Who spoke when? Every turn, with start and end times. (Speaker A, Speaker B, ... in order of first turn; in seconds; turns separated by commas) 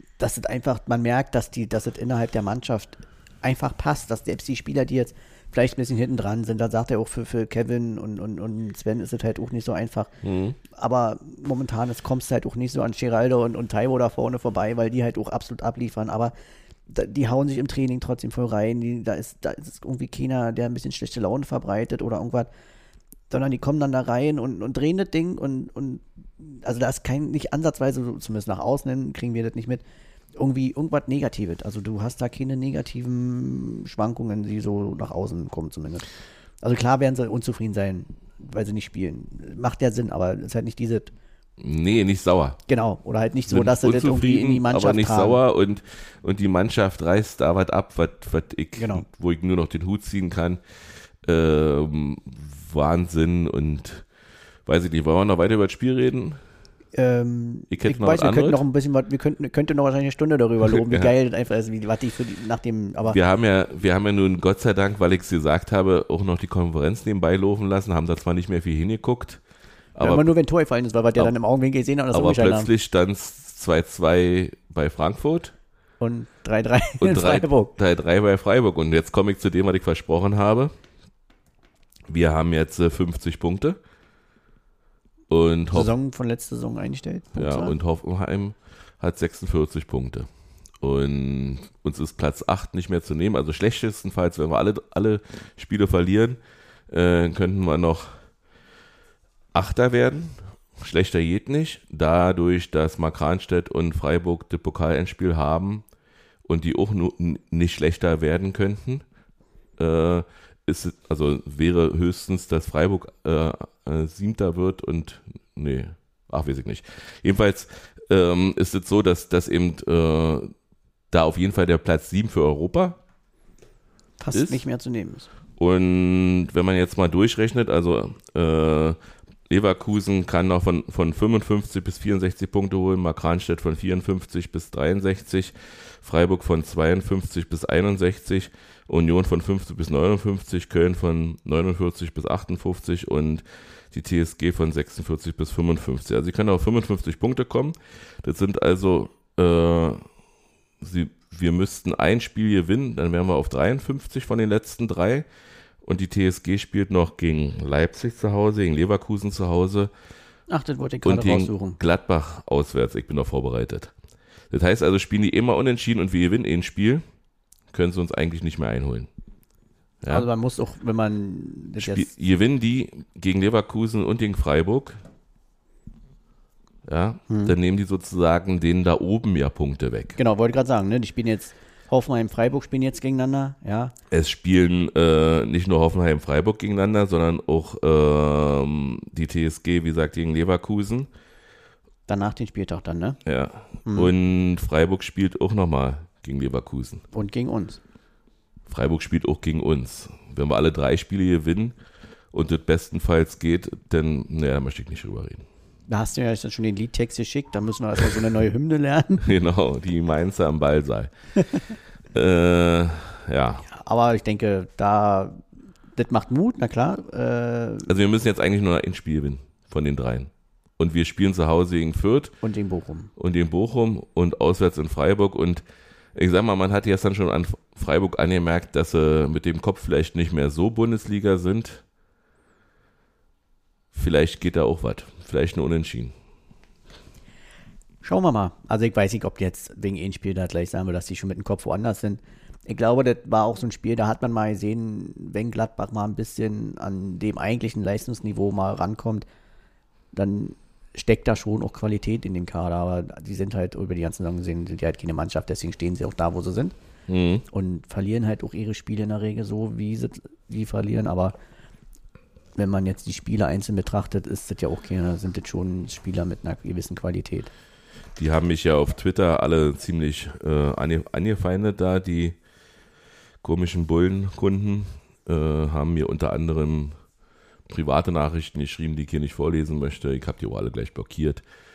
Speaker A: 0.2-10.1, Speaker B: 10.2-10.6, Speaker A: 10.7-16.3, Speaker A: 16.9-22.5, Speaker A: 23.3-29.8, Speaker A: 30.4-36.1, Speaker A: 36.6-41.1, Speaker B: 41.6-42.6, Speaker A: 42.7-45.4, Speaker B: 43.5-50.6, Speaker A: 48.8-49.0, Speaker B: 51.2-54.0, Speaker B: 54.7-56.4, Speaker A: 57.0-63.2, Speaker B: 57.7-58.6, Speaker B: 60.6-61.1, Speaker B: 63.0-69.4, Speaker B: 70.0-70.3, Speaker A: 70.0-72.7, Speaker B: 72.1-75.5, Speaker A: 76.0-77.7, Speaker B: 77.0-80.7, Speaker B: 82.1-83.8, Speaker B: 85.3-85.9, Speaker A: 85.7-87.8, Speaker B: 87.3-90.3, Speaker B: 90.8-98.3, Speaker B: 99.5-105.8, Speaker B: 106.5-109.0, Speaker B: 109.8-120.5, Speaker B: 121.1-123.0, Speaker A: 124.2-125.3, Speaker B: 124.3-124.6, Speaker B: 125.6-150.0, Speaker B: 150.8-155.3, Speaker B: 155.8-159.9, Speaker A: 160.5-161.8, Speaker B: 161.1-163.9, Speaker B: 164.5-167.0, Speaker B: 167.7-169.1, Speaker B: 170.0-170.3, Speaker A: 170.1-172.1, Speaker B: 171.8-175.0, Speaker B: 176.8-180.2, Speaker A: 177.3-177.5, Speaker A: 180.2-183.9, Speaker B: 184.1-191.1, Speaker A: 192.1-193.2, Speaker B: 193.2-197.0, Speaker A: 193.8-194.1, Speaker A: 197.1-197.8, Speaker B: 198.7-201.8, Speaker B: 202.3-205.5, Speaker A: 205.9-209.3, Speaker B: 209.2-211.1, Speaker B: 212.1-213.7, Speaker A: 213.7-215.4, Speaker A: 215.9-217.9, Speaker B: 217.9-222.4, Speaker A: 222.4-223.1, Speaker B: 223.2-225.6, Speaker B: 226.2-231.8, Speaker B: 233.9-236.1, Speaker A: 238.0-249.2, Speaker A: 250.1-256.7, Speaker B: 257.1-257.4, Speaker A: 257.5-261.3, Speaker A: 262.6-267.5, Speaker B: 268.2-272.4, Speaker B: 273.4-277.0, Speaker B: 277.7-281.4